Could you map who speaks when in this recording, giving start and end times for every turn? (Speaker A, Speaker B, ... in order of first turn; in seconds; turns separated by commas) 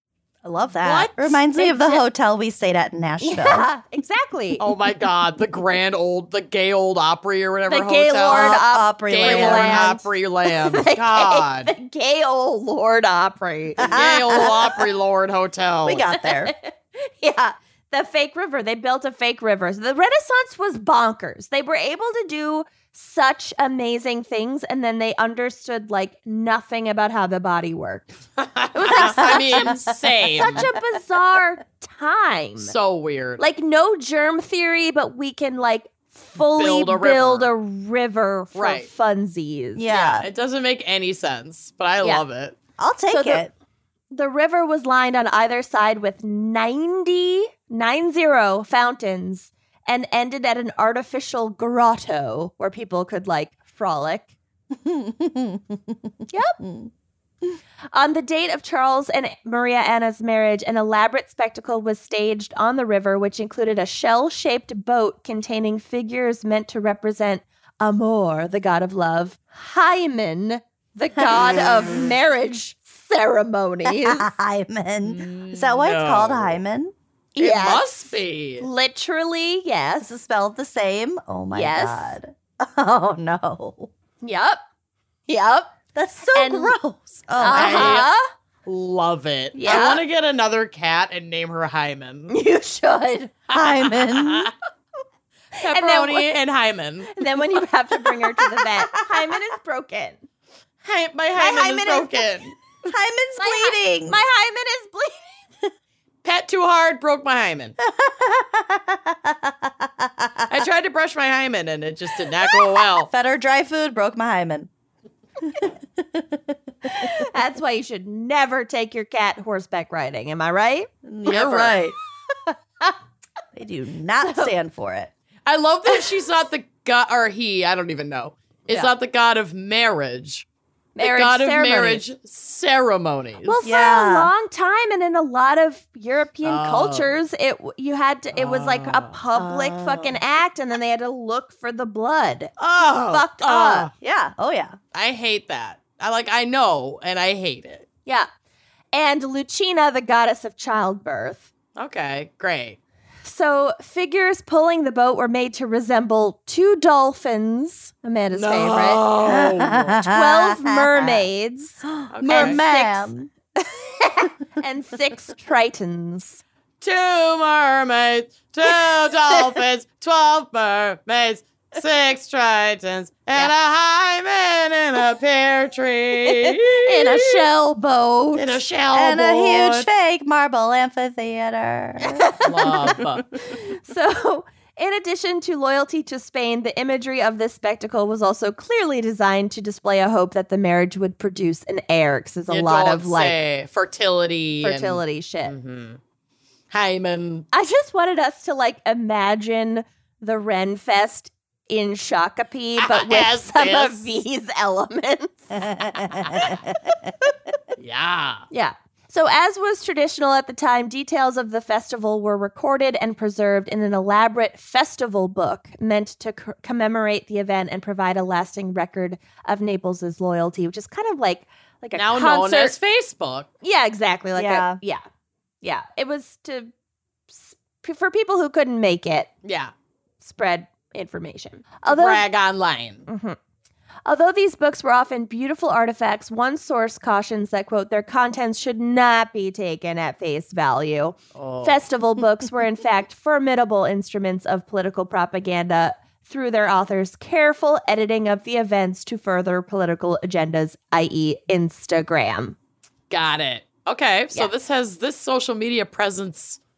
Speaker A: 0.5-3.6, Speaker B: 0.8-1.7, Speaker C: 1.7-2.0, Speaker C: 3.2-4.6, Speaker B: 4.6-8.6, Speaker C: 7.7-10.0, Speaker A: 8.4-9.8, Speaker B: 9.1-11.7, Speaker C: 10.6-14.5, Speaker B: 13.8-16.1, Speaker A: 15.8-16.5, Speaker C: 16.2-28.1, Speaker B: 28.4-30.6, Speaker C: 28.7-29.7, Speaker C: 30.4-32.7, Speaker B: 32.6-33.4, Speaker C: 33.4-39.8, Speaker B: 36.4-37.5, Speaker B: 38.5-38.9, Speaker A: 39.8-40.2, Speaker B: 39.9-42.6, Speaker A: 42.8-43.5, Speaker C: 43.1-43.5, Speaker C: 44.1-54.3, Speaker A: 54.9-55.6, Speaker C: 56.3-56.6, Speaker C: 57.9-74.3, Speaker A: 74.1-76.9, Speaker B: 75.0-76.6, Speaker C: 77.3-80.1, Speaker B: 77.4-78.7, Speaker A: 80.1-83.9, Speaker C: 81.5-82.1, Speaker C: 84.2-84.6, Speaker C: 85.3-85.7, Speaker A: 86.0-88.0, Speaker C: 86.3-86.8, Speaker C: 87.4-88.3, Speaker B: 87.5-88.1, Speaker B: 88.7-92.3, Speaker C: 89.5-90.0, Speaker C: 92.3-93.3, Speaker B: 93.5-94.5, Speaker A: 93.5-94.5, Speaker C: 95.6-96.2, Speaker B: 95.6-97.1, Speaker C: 97.1-100.2, Speaker B: 100.8-102.6, Speaker C: 101.3-102.2, Speaker A: 102.8-104.2, Speaker C: 103.4-105.5, Speaker B: 106.2-107.8, Speaker A: 107.9-110.4, Speaker B: 110.5-113.1, Speaker A: 113.1-114.7, Speaker A: 115.6-116.4, Speaker C: 116.9-121.6, Speaker A: 121.1-121.9, Speaker B: 121.2-121.8, Speaker C: 122.5-122.9, Speaker A: 123.5-125.1, Speaker C: 124.2-124.5, Speaker B: 125.5-130.4, Speaker C: 130.9-132.1, Speaker B: 131.0-133.6, Speaker C: 133.4-143.9, Speaker A: 133.6-134.3, Speaker B: 136.4-137.2, Speaker B: 138.3-139.2, Speaker A: 139.3-140.1, Speaker B: 142.6-143.9, Speaker A: 144.0-144.7, Speaker B: 144.9-147.8, Speaker C: 148.9-151.5, Speaker B: 151.8-152.8, Speaker C: 153.2-159.1, Speaker B: 158.3-160.0, Speaker A: 159.3-160.5, Speaker C: 160.0-166.4, Speaker A: 161.9-163.3, Speaker B: 162.1-162.6, Speaker B: 166.8-177.4, Speaker C: 176.2-178.6, Speaker B: 178.3-179.9, Speaker A: 178.9-182.3, Speaker C: 182.1-182.9, Speaker B: 182.4-183.3, Speaker C: 183.4-193.3, Speaker B: 192.5-196.0, Speaker C: 194.6-195.5, Speaker B: 196.7-197.4, Speaker C: 197.5-206.6, Speaker B: 202.8-204.1, Speaker A: 205.6-207.1, Speaker B: 207.8-208.4, Speaker C: 208.5-222.8, Speaker B: 221.9-223.5, Speaker C: 223.6-225.0, Speaker A: 224.3-224.8, Speaker C: 225.6-226.7, Speaker C: 227.3-229.3, Speaker B: 229.4-229.7, Speaker C: 230.2-232.2, Speaker B: 231.8-233.1, Speaker C: 233.1-233.4, Speaker C: 234.1-252.6, Speaker B: 241.3-241.8, Speaker B: 253.1-256.6